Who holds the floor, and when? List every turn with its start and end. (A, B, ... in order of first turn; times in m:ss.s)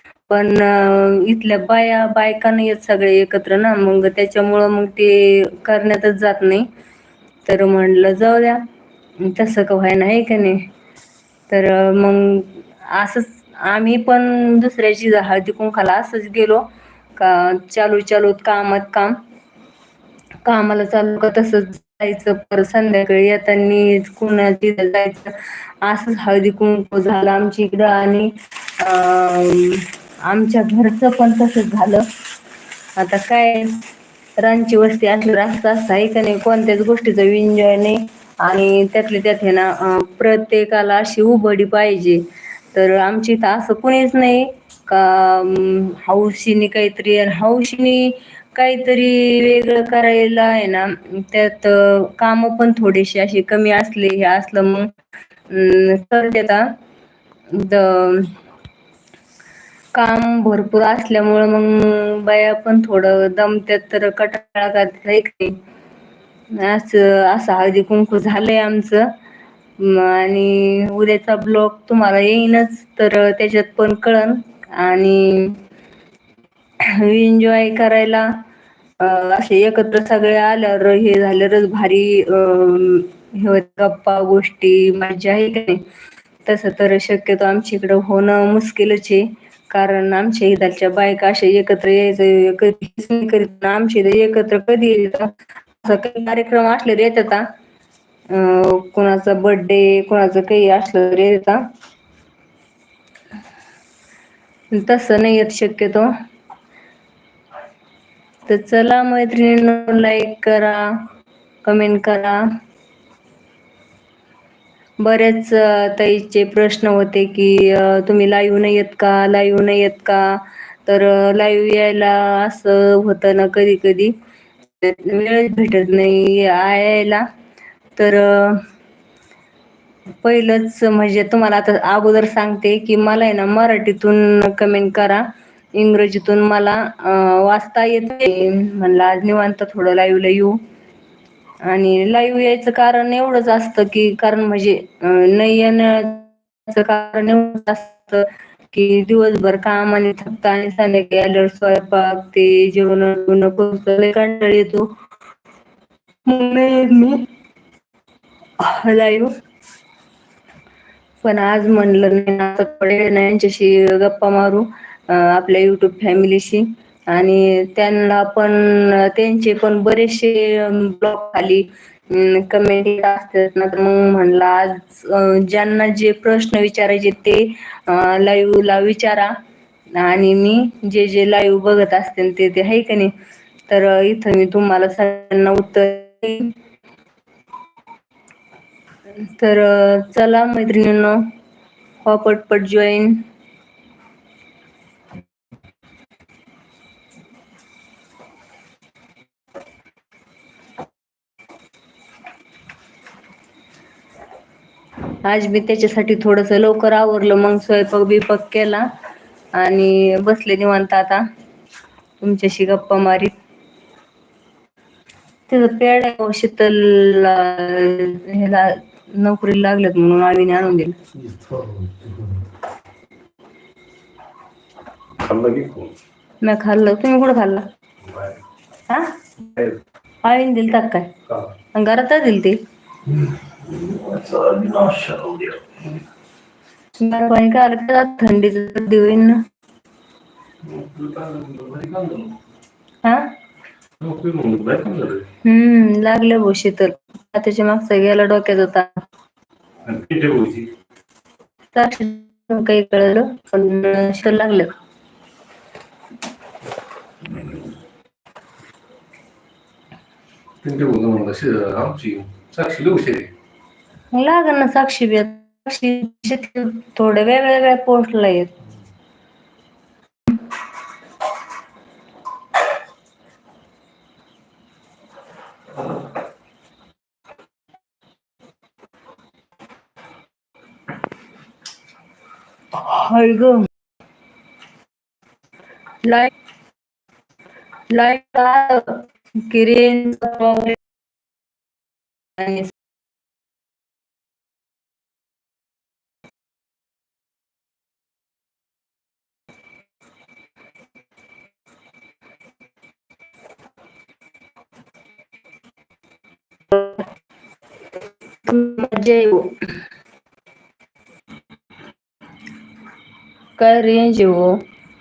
0:00.3-0:06.7 A
0:07.5-0:08.6 A
0:09.2-0:10.7 A
0:11.5-0:16.6 A
0:17.2-0:19.2 A
0:20.4-0:32.1 A
0:33.0-0:33.8 A
0:34.4-0:54.9 A
0:55.5-0:56.7 A
0:57.5-0:58.4 A
0:59.9-1:05.6 A
1:06.5-1:09.1 A
1:09.8-1:15.6 A
1:16.8-1:18.3 A
1:19.0-1:25.8 A
1:26.4-1:37.4 A
1:38.3-1:41.6 A
1:44.7-1:46.1 A
1:48.5-1:51.0 A
1:51.6-1:52.4 A
1:55.0-2:04.1 A
2:04.8-2:07.2 A
2:08.0-2:08.7 A
2:10.2-2:15.2 A
2:15.8-2:20.6 A
2:21.6-2:34.9 A
2:36.3-2:37.3 A
2:38.6-2:39.3 A
2:41.2-2:59.3 A
2:59.9-3:03.1 A
3:03.7-3:06.5 A
3:09.2-3:11.2 A
3:12.0-3:13.2 A
3:25.2-3:28.9 A
3:29.6-3:31.2 A
3:32.2-3:33.3 A
3:35.5-3:41.0 A
3:41.2-3:42.4 B
3:45.2-3:46.0 B
3:46.4-3:47.7 A
3:48.1-3:48.4 B
3:48.9-3:49.2 A
3:49.4-3:49.8 B
3:50.2-3:51.1 A
3:51.8-3:52.6 A
3:53.3-3:55.6 B
3:57.0-3:59.4 A
4:00.6-4:02.4 B
4:03.0-4:03.3 A
4:04.0-4:05.3 B
4:05.4-4:09.0 A
4:09.8-4:10.7 B
4:11.7-4:14.7 A
4:20.6-4:23.3 B
4:24.1-4:28.5 A
4:42.7-4:43.7 A
4:46.0-4:46.3 A
4:47.9-4:50.8 A
4:52.4-4:52.8 A
5:06.7-5:07.0 A
5:08.4-5:09.6 A
5:13.6-5:14.6 A